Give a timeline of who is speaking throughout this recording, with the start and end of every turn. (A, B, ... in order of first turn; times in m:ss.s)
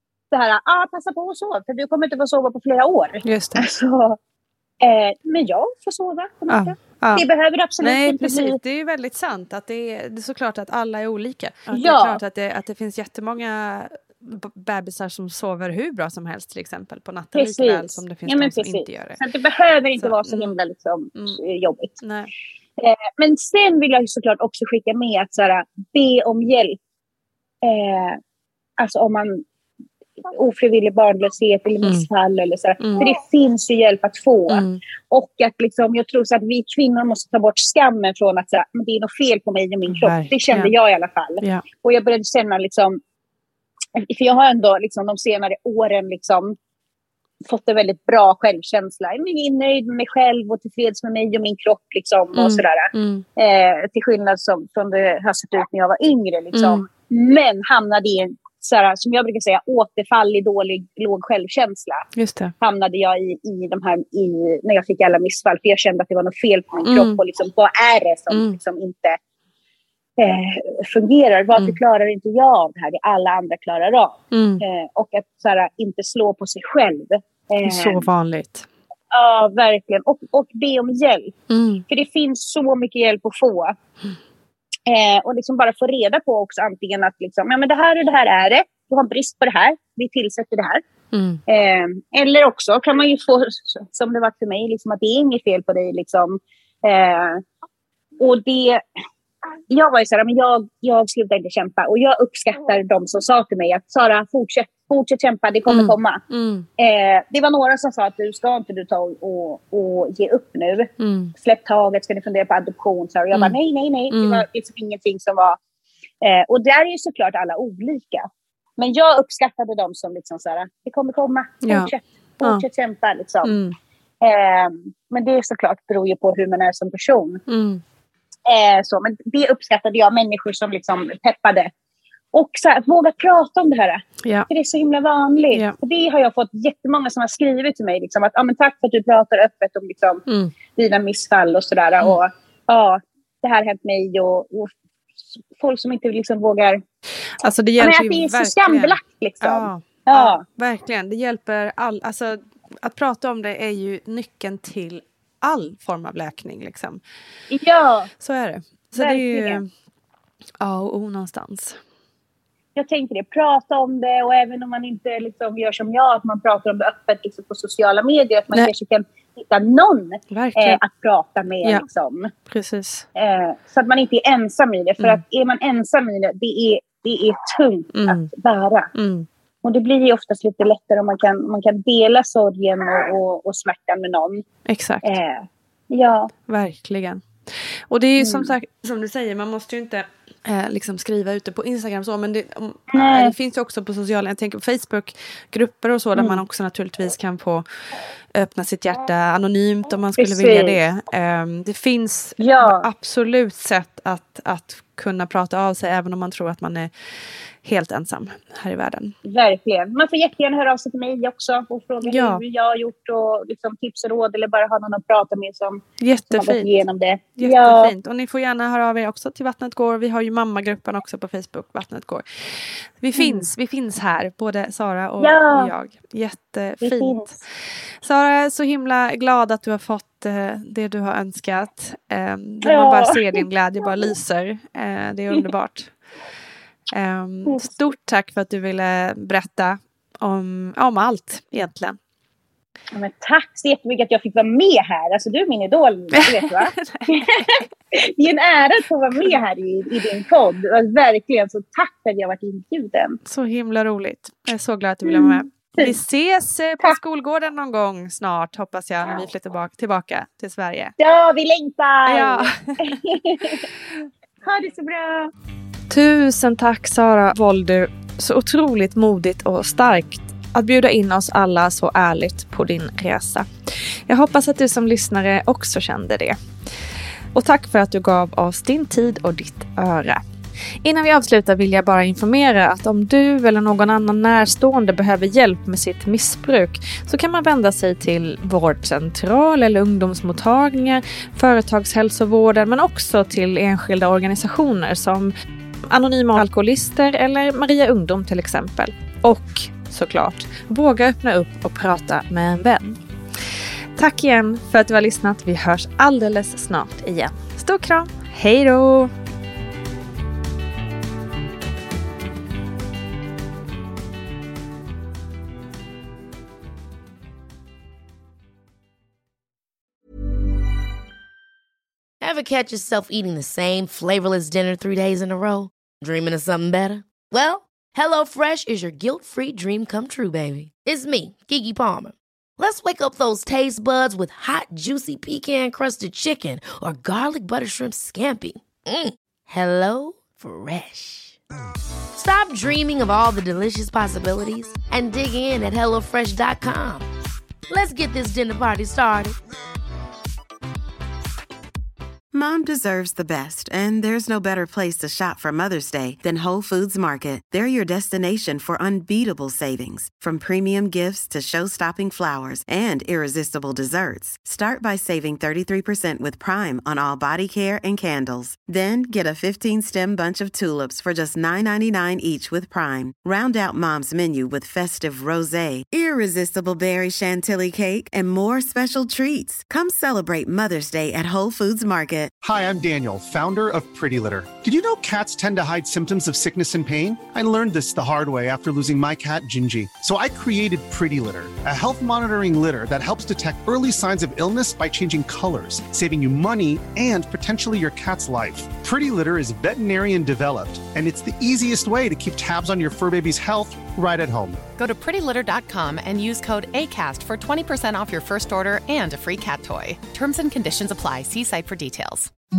0:00.3-0:04.2 A
0:03.2-0:03.6 B
0:04.8-0:08.6 A
0:06.5-0:07.3 B
0:07.8-0:19.2 B
0:11.7-0:12.2 A
0:17.4-0:22.0 A
0:20.0-0:20.5 B
0:22.0-0:22.3 B
0:22.8-0:26.8 A
0:27.6-0:28.2 A
0:28.8-0:29.4 A
0:30.3-0:43.0 A
0:32.8-0:33.1 B
0:34.5-0:34.8 B
0:39.9-0:40.7 B
0:44.0-0:46.6 A
0:47.4-1:02.1 A
0:52.3-0:53.2 B
0:56.5-0:56.8 B
1:02.2-1:02.5 B
1:02.6-1:09.2 A
1:06.9-1:07.2 B
1:08.3-1:08.6 B
1:10.2-1:18.1 A
1:14.3-1:14.6 B
1:17.6-1:18.7 B
1:19.1-1:23.8 A
1:21.5-1:21.8 B
1:24.9-1:30.8 A
1:31.1-1:31.4 B
1:31.5-1:37.4 A
1:38.2-1:38.8 A
1:39.7-1:46.2 A
1:45.7-1:46.7 B
1:46.8-1:55.6 A
1:51.0-1:51.3 B
1:54.1-1:54.4 B
1:56.2-1:58.3 A
1:58.8-2:03.6 A
2:01.6-2:02.6 B
2:03.4-2:03.8 B
2:04.2-2:07.4 A
2:07.5-2:07.8 B
2:08.5-2:11.7 A
2:12.3-2:20.2 A
2:14.2-2:14.5 B
2:15.5-2:15.8 B
2:20.3-2:20.5 B
2:20.7-2:24.7 A
2:25.3-2:26.8 A
2:27.4-2:37.0 B
2:27.8-2:30.4 A
2:37.5-2:38.1 A
2:38.2-2:39.7 B
2:39.0-2:39.6 A
2:40.6-2:41.8 B
2:42.8-2:52.3 A
2:50.3-2:50.8 B
2:52.5-2:53.1 B
2:53.2-2:58.9 A
2:57.9-2:58.3 B
2:59.0-2:59.3 B
2:59.6-3:04.4 A
3:04.7-3:05.1 B
3:05.0-3:06.3 A
3:06.5-3:17.6 B
3:08.2-3:08.5 A
3:12.9-3:13.3 A
3:18.4-3:26.9 B
3:20.2-3:20.8 A
3:22.4-3:22.9 A
3:27.6-3:29.2 B
3:29.2-3:37.9 A
3:32.0-3:32.4 B
3:36.0-3:36.8 B
3:37.4-3:47.3 B
3:43.2-3:43.5 A
3:45.2-3:45.7 A
3:46.8-3:47.4 A
3:48.0-3:55.9 B
3:52.6-3:54.1 A
3:56.9-4:02.0 B
3:57.5-3:57.8 A
4:02.9-4:13.2 A
4:06.2-4:07.6 B
4:09.1-4:09.4 B
4:13.2-4:21.0 B
4:15.0-4:16.0 A
4:21.0-4:23.7 A
4:22.1-4:23.5 B
4:24.4-4:25.3 A
4:25.9-4:33.5 B
4:34.1-4:36.4 B
4:37.3-4:40.2 B
4:40.8-4:55.3 B
4:55.9-5:03.0 B
5:04.0-5:09.1 B
5:22.2-5:41.4 C
5:42.1-5:47.0 C
5:47.7-5:49.4 C
5:52.3-6:22.3 D
6:22.4-6:44.6 E
6:44.8-6:52.3 F